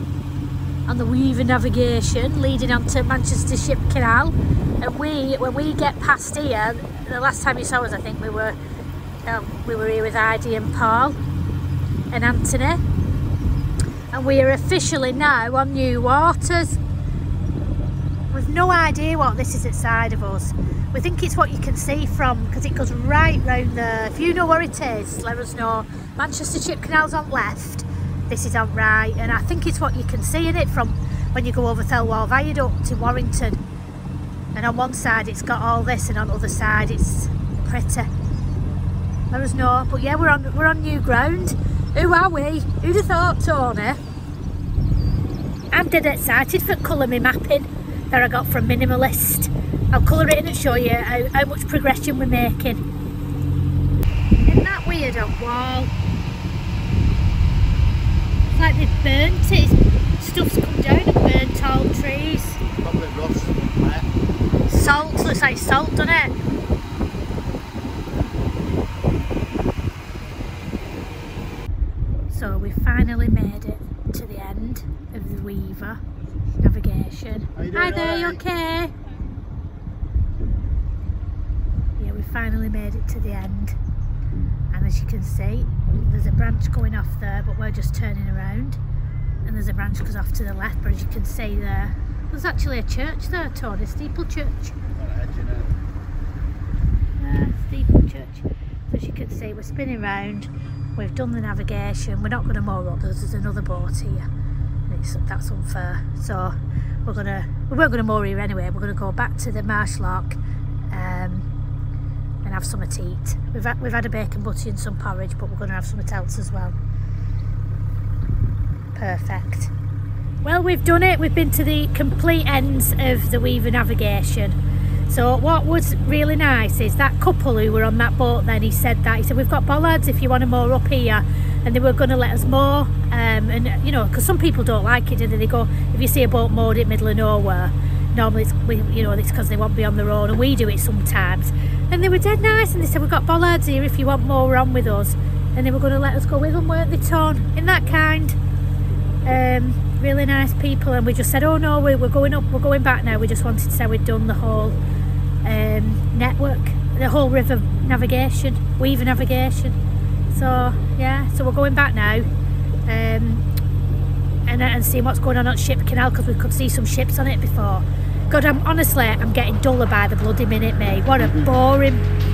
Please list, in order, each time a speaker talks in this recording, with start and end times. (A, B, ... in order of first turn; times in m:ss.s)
0:00.9-0:08.6 A
0:09.2-0:11.2 A
0:12.1-0:12.8 A
0:14.1-0:16.8 A
0:18.3-0:33.6 A
0:34.5-0:38.1 A
0:39.3-0:44.0 A
0:45.7-0:52.8 A
0:54.4-0:55.9 A
0:58.5-1:02.6 A
1:02.7-1:04.1 B
1:04.7-1:05.2 B
1:04.7-1:06.4 A
1:12.3-1:16.0 A
1:16.6-1:18.9 A
1:17.6-1:18.5 B
1:22.0-1:23.7 A
1:24.7-1:28.8 A
1:29.4-1:34.7 A
1:34.9-1:35.7 B
1:37.2-1:44.2 A
1:44.9-1:46.5 A
1:47.0-1:50.4 A
1:50.9-1:51.4 A
1:52.4-1:56.8 A
1:58.9-1:59.7 A
2:00.4-2:04.6 A
2:05.1-2:28.4 A
2:29.2-2:34.8 A
2:35.4-2:39.8 A
2:40.3-2:42.3 A
2:42.8-2:43.4 A
2:44.5-2:52.0 A
2:51.2-2:51.5 B